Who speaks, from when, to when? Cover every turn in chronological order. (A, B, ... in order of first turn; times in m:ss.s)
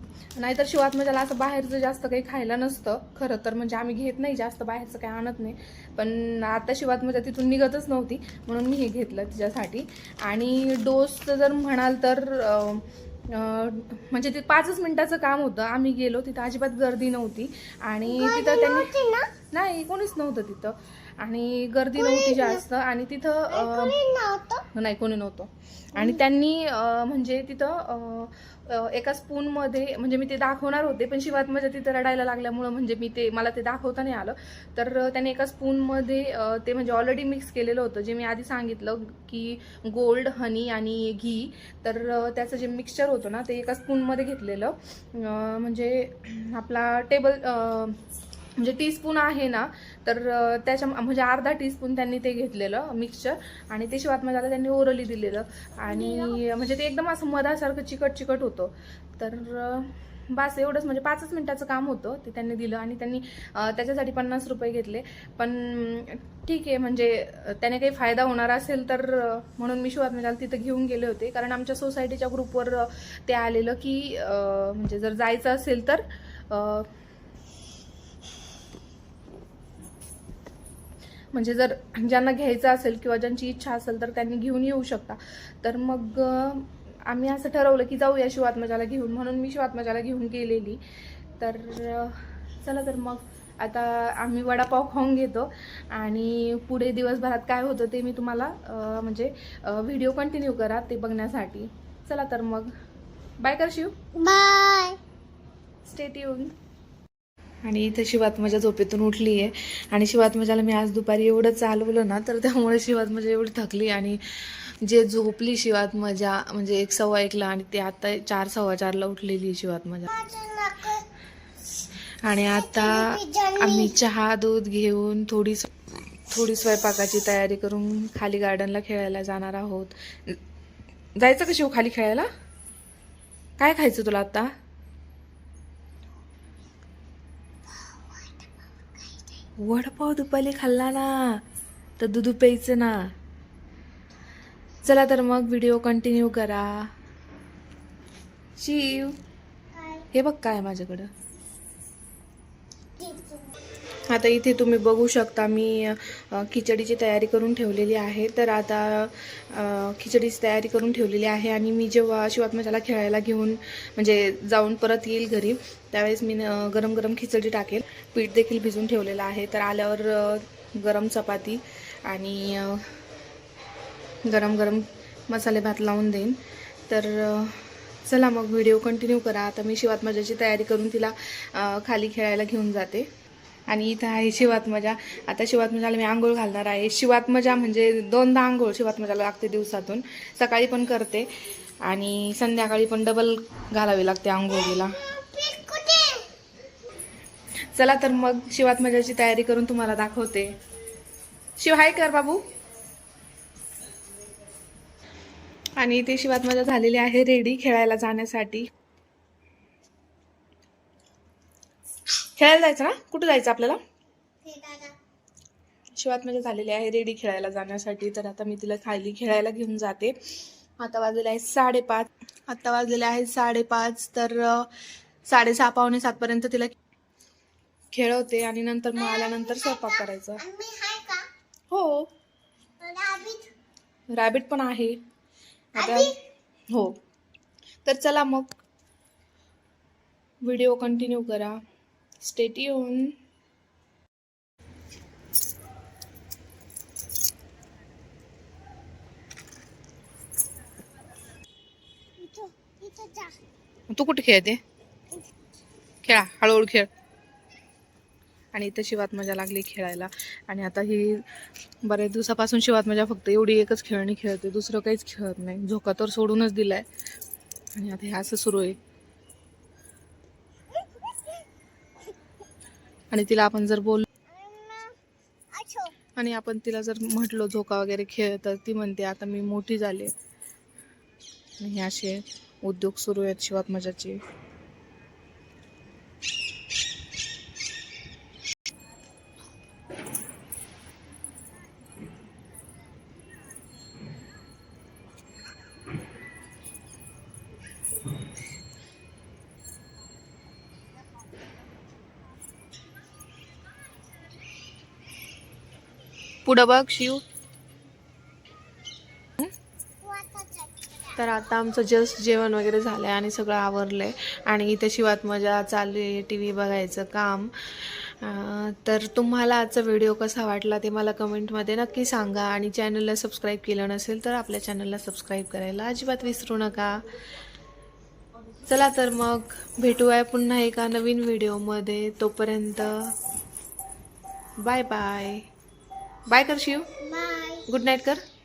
0:00.4-0:19.0 A
0:18.0-0:19.3 B
0:19.5-0:24.0 A
0:22.0-0:22.6 B
0:23.5-0:24.7 B
0:24.7-0:48.0 A
0:26.0-0:26.2 B
0:48.6-1:16.9 A
0:55.8-0:56.4 B
1:21.3-1:30.8 A
1:31.4-1:42.7 A
1:43.4-1:43.9 A
1:44.2-1:45.0 B
1:45.9-1:46.5 A
1:47.6-2:00.1 A
2:00.1-2:01.0 B
2:02.2-2:05.7 A
2:02.5-2:04.0 B
2:06.3-2:10.4 A
2:11.2-2:12.3 A
2:13.6-2:14.5 A
2:17.7-2:19.4 B
2:19.6-2:21.4 A
2:22.0-2:23.1 A
2:24.8-2:26.9 A
2:28.6-2:29.2 A
2:29.7-2:30.1 B
2:30.1-2:31.1 A
2:33.0-2:33.5 B
2:34.1-2:52.9 A
2:54.2-3:03.1 A
3:03.7-3:11.3 A
3:11.8-3:15.0 A
3:14.8-3:16.3 B
3:17.8-3:20.5 A
3:21.6-3:22.4 A
3:25.8-3:28.7 A
3:32.4-3:33.8 A
3:34.4-3:35.0 B
3:36.0-3:40.2 A
3:40.8-3:44.7 A
3:45.2-3:46.7 A
3:47.9-3:50.4 A
3:49.0-3:51.3 B
3:51.7-3:52.1 A
3:52.8-3:53.5 B
3:54.1-3:55.0 A
3:55.8-3:56.2 B
3:55.8-3:56.1 A
3:56.7-3:57.0 A
3:57.8-3:58.5 A
4:00.4-4:01.6 A
4:02.2-4:03.1 A
4:12.2-4:13.4 B
4:13.9-4:14.6 A
4:16.0-4:16.9 A
4:18.5-4:21.2 A
4:21.8-4:26.9 A
4:27.8-4:28.8 A
4:33.1-4:34.1 A
4:34.3-4:35.0 B
4:35.5-4:36.0 B
4:36.2-4:40.1 A
4:41.6-4:44.2 A
5:06.4-5:07.2 A
5:10.0-5:11.2 B
5:11.2-5:27.0 A
5:28.7-5:33.1 A
5:34.6-5:35.4 A
5:36.3-5:36.9 A
5:37.0-5:37.7 B
5:37.7-5:38.2 A